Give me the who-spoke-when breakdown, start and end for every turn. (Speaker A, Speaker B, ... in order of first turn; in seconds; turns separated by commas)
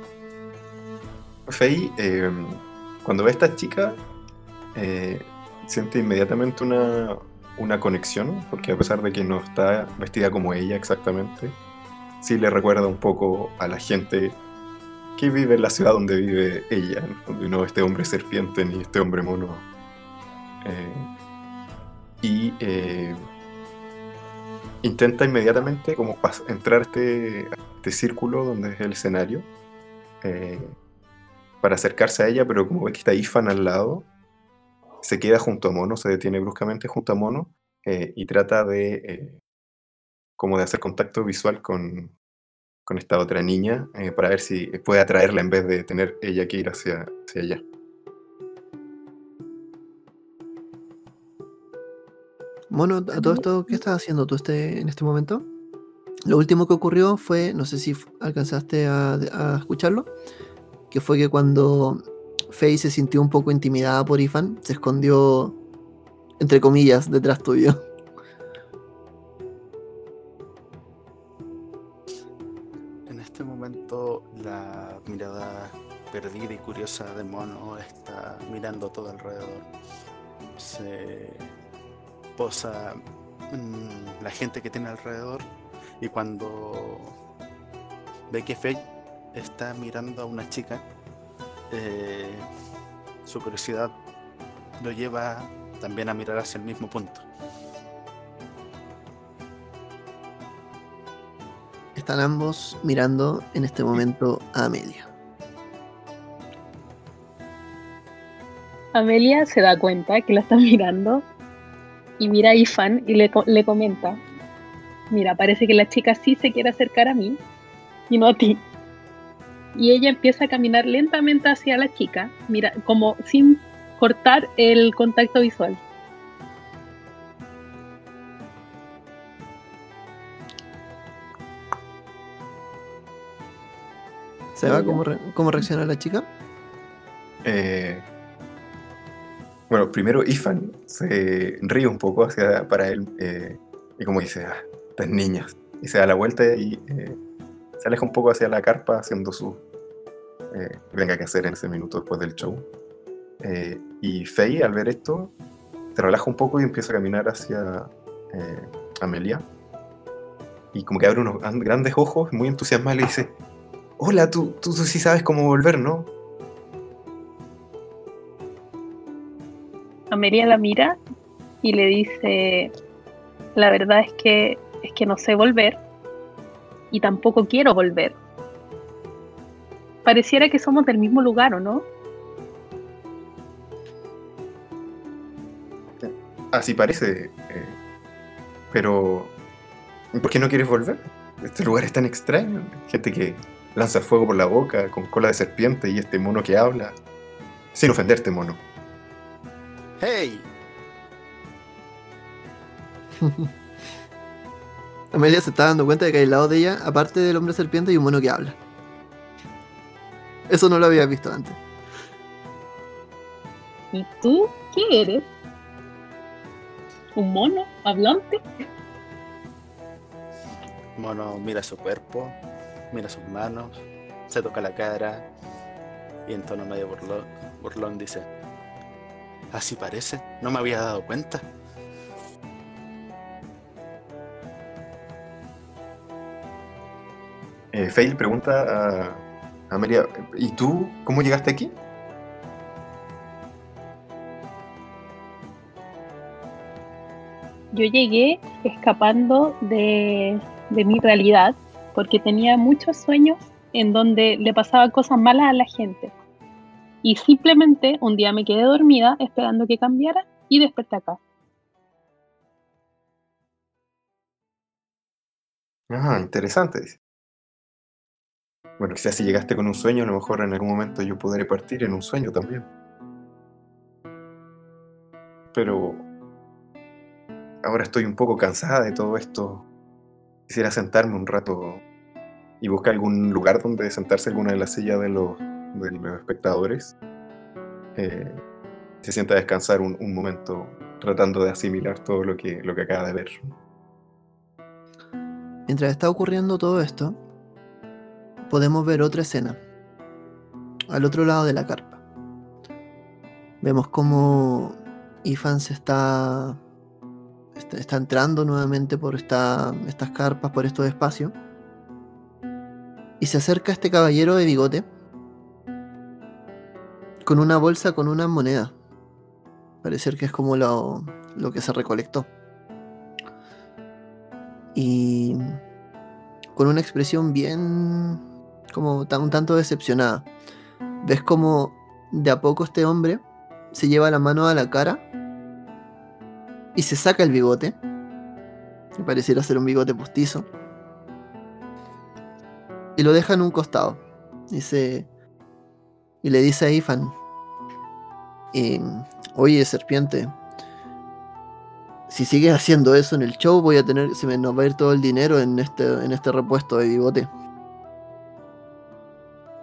Speaker A: 1.5-4.0, Speaker A: 4.7-11.6, Speaker A: 12.2-14.4, Speaker A: 15.2-19.7, Speaker A: 20.6-21.1, Speaker A: 22.2-23.2, Speaker A: 24.8-29.5, Speaker A: 30.2-30.8, Speaker A: 31.6-34.1, Speaker A: 35.0-39.4, Speaker A: 40.4-42.1, Speaker A: 42.9-47.6, Speaker B: 52.7-55.5, Speaker C: 53.1-53.7, Speaker B: 56.2-60.1, Speaker B: 60.9-65.6, Speaker B: 66.4-67.8, Speaker D: 73.1-79.7, Speaker D: 80.6-81.5, Speaker D: 82.4-85.5, Speaker D: 86.0-87.2, Speaker D: 88.3-90.8, Speaker D: 91.7-92.5, Speaker D: 93.2-93.9, Speaker D: 94.8-97.2, Speaker B: 102.0-105.1, Speaker C: 108.9-111.2, Speaker C: 112.2-114.2, Speaker C: 115.1-117.4, Speaker C: 118.1-118.6, Speaker C: 119.7-125.8, Speaker B: 134.6-136.3, Speaker C: 134.6-135.0, Speaker A: 137.4-138.1, Speaker A: 139.7-147.2, Speaker A: 147.8-149.6, Speaker A: 150.5-152.7, Speaker A: 153.4-155.3, Speaker A: 155.9-159.4, Speaker A: 160.7-163.3, Speaker A: 164.0-166.1, Speaker C: 170.1-171.0, Speaker C: 171.6-172.7, Speaker C: 173.6-175.8, Speaker C: 176.9-178.2, Speaker C: 180.0-181.9, Speaker A: 186.0-187.8, Speaker A: 188.7-189.3, Speaker A: 190.1-196.9, Speaker A: 197.7-198.6, Speaker D: 200.0-200.5, Speaker B: 203.2-203.5, Speaker B: 205.1-208.6, Speaker B: 210.5-211.6, Speaker C: 213.9-215.3, Speaker C: 217.2-218.4, Speaker D: 220.9-222.4, Speaker D: 222.9-225.3, Speaker D: 226.2-228.3, Speaker D: 229.5-231.4, Speaker A: 237.7-241.7, Speaker C: 247.7-256.1, Speaker C: 257.0-261.2, Speaker A: 265.9-267.0, Speaker A: 268.8-272.7, Speaker A: 275.5-276.0, Speaker A: 277.6-279.6, Speaker A: 280.5-281.8, Speaker A: 282.6-286.9, Speaker A: 287.9-288.4, Speaker A: 289.0-293.5, Speaker B: 295.7-297.2, Speaker B: 298.4-299.6, Speaker B: 300.9-302.0, Speaker B: 303.6-306.6, Speaker B: 307.6-311.3, Speaker B: 313.2-314.9, Speaker B: 317.2-318.7, Speaker B: 319.8-322.3, Speaker B: 324.7-325.6, Speaker B: 326.5-328.2, Speaker B: 328.7-330.3, Speaker B: 331.0-335.0, Speaker B: 336.7-337.8, Speaker B: 338.9-340.5, Speaker B: 342.9-345.1, Speaker B: 346.2-347.1, Speaker B: 348.5-350.4, Speaker B: 352.1-357.3